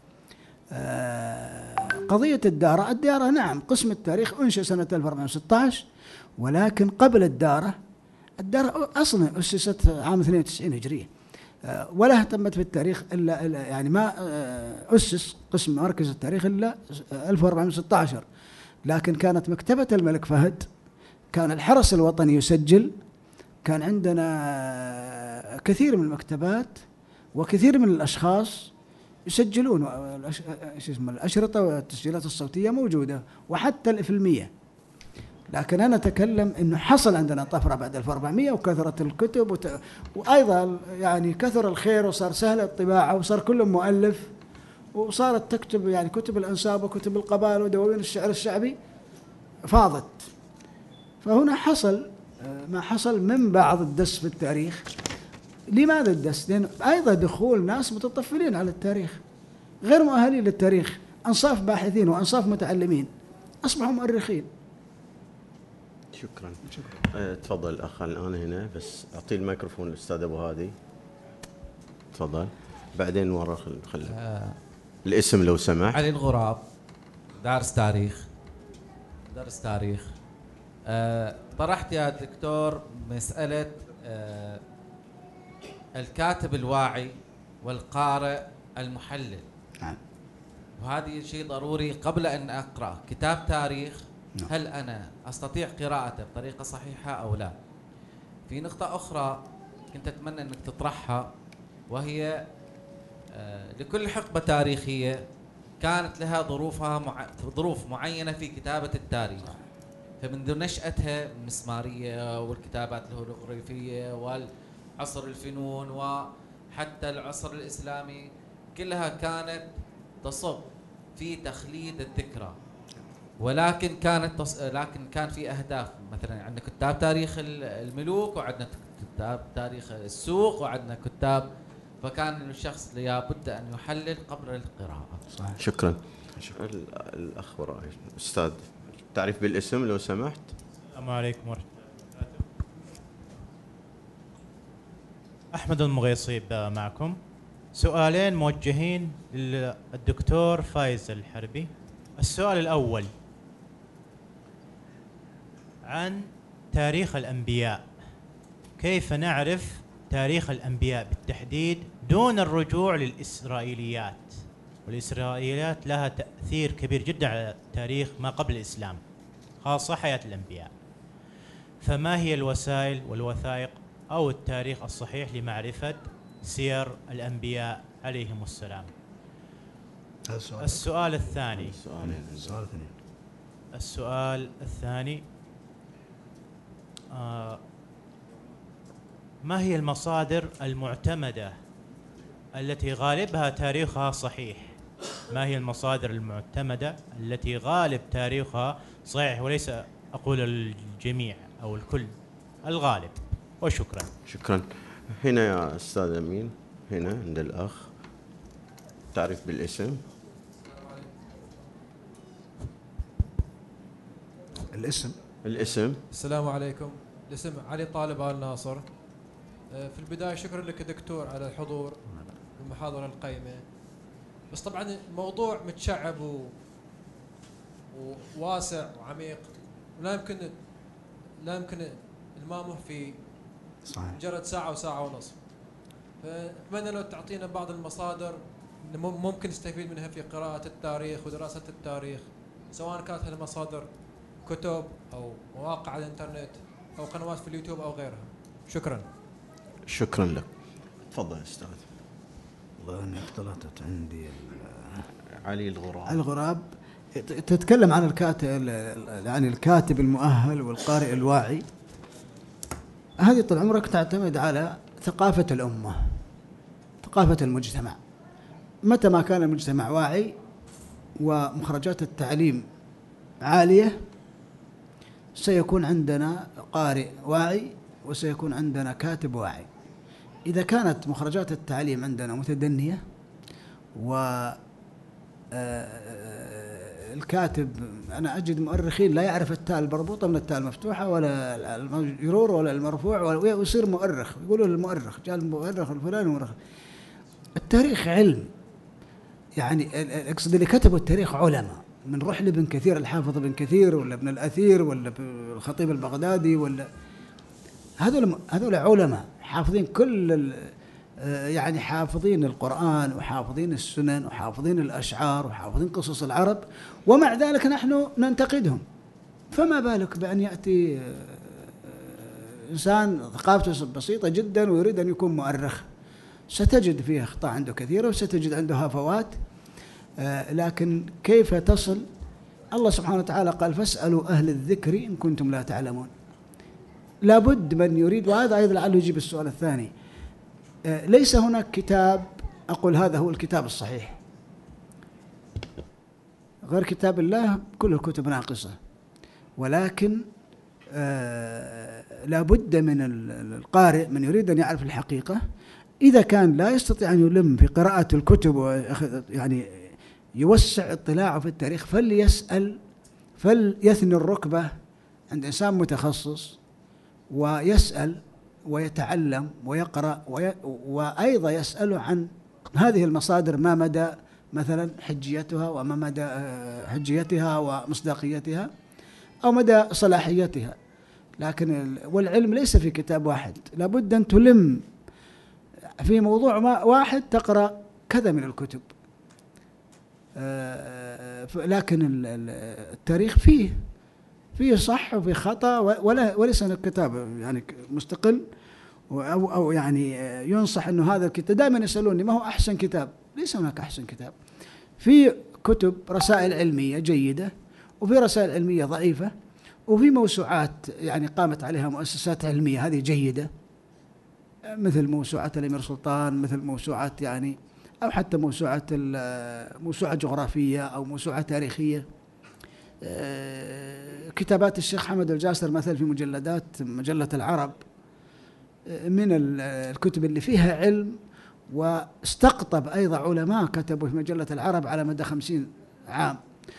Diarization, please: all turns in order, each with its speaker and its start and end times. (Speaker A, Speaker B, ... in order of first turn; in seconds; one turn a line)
Speaker A: 0.7-5.8
Speaker A: 6.4-7.8
Speaker A: 8.4-11.1
Speaker A: 11.7-18.2
Speaker A: 18.9-20.6
Speaker A: 21.3-22.9
Speaker A: 23.6-26.8
Speaker A: 27.4-28.7
Speaker A: 29.3-34.5
Speaker A: 35.5-44.3
Speaker A: 44.9-48.8
Speaker A: 49.7-50.3
Speaker A: 51.2-54.9
Speaker A: 55.7-59.2
Speaker A: 59.8-63.1
Speaker A: 63.6-64.5
Speaker B: 66.1-70.7
Speaker A: 66.7-67.0
Speaker B: 72.1-74.1
Speaker C: 74.1-74.6
Speaker B: 75.0-76.0
Speaker C: 75.9-76.6
Speaker C: 77.4-78.2
Speaker C: 79.3-80.1
Speaker C: 80.8-84.6
Speaker C: 86.0-89.4
Speaker C: 90.8-97.5
Speaker C: 98.5-99.4
Speaker C: 99.9-101.3
Speaker C: 101.9-102.3
Speaker C: 103.3-105.2
Speaker C: 105.8-109.5
Speaker C: 110.2-114.5
Speaker C: 115.0-119.7
Speaker C: 120.2-122.5
Speaker C: 123.4-131.4
Speaker C: 132.0-135.2
Speaker A: 135.3-135.6
Speaker B: 135.6-136.0
Speaker B: 136.5-140.5
Speaker D: 140.9-141.6
Speaker D: 142.2-142.4
Speaker D: 145.5-147.2
Speaker D: 147.7-153.1
Speaker D: 155.9-156.2
Speaker D: 156.7-157.8
Speaker D: 158.8-164.3
Speaker D: 164.8-169.0
Speaker D: 169.6-170.7
Speaker D: 171.8-178.9
Speaker A: 180.3-180.8
Speaker D: 180.6-181.8
Speaker B: 181.5-182.6
Speaker A: 182.0-182.9
Speaker D: 183.8-185.2
Speaker D: 187.1-187.6
Speaker D: 189.4-191.5
Speaker D: 192.6-194.7
Speaker D: 195.3-202.1
Speaker D: 202.6-204.1
Speaker B: 204.2-207.9
Speaker B: 209.1-210.0
Speaker A: 214.7-215.1
Speaker B: 215.4-216.0
Speaker E: 216.1-218.8
Speaker E: 219.7-222.0
Speaker E: 222.6-223.6
Speaker E: 224.5-226.5
Speaker E: 227.9-230.6
Speaker E: 231.4-233.2
Speaker A: 233.9-234.2
Speaker E: 234.1-235.3
Speaker E: 236.2-243.9
Speaker E: 244.4-249.1
Speaker B: 249.8-250.5
Speaker B: 251.1-251.8
Speaker A: 252.8-255.0
Speaker B: 255.4-256.2
Speaker A: 256.1-256.6
Speaker A: 257.2-261.6
Speaker A: 263.2-266.0
Speaker A: 267.0-268.0
Speaker A: 268.9-270.3
Speaker A: 271.2-272.6
Speaker A: 273.4-274.0
Speaker A: 275.4-279.7
Speaker A: 280.5-283.0
Speaker A: 284.0-284.6
Speaker A: 285.5-296.6
Speaker A: 297.6-298.5
Speaker A: 299.6-306.9
Speaker A: 308.0-318.8
Speaker A: 319.5-325.9
Speaker A: 326.5-329.4
Speaker A: 330.2-332.1
Speaker A: 332.7-336.1
Speaker A: 337.2-339.9
Speaker A: 340.9-344.2
Speaker A: 346.7-348.8
Speaker A: 349.6-350.2
Speaker A: 350.9-355.4
Speaker A: 356.0-362.8
Speaker A: 363.4-364.7
Speaker A: 365.3-366.6
Speaker A: 367.3-378.7
Speaker A: 379.4-380.8
Speaker A: 381.4-384.8
Speaker A: 386.0-388.9
Speaker A: 390.4-393.8
Speaker A: 394.6-398.4
Speaker A: 399.1-404.3
Speaker A: 405.0-409.3
Speaker A: 409.9-413.5
Speaker A: 414.8-422.0
Speaker A: 423.0-427.8
Speaker A: 428.9-431.2
Speaker A: 431.7-436.4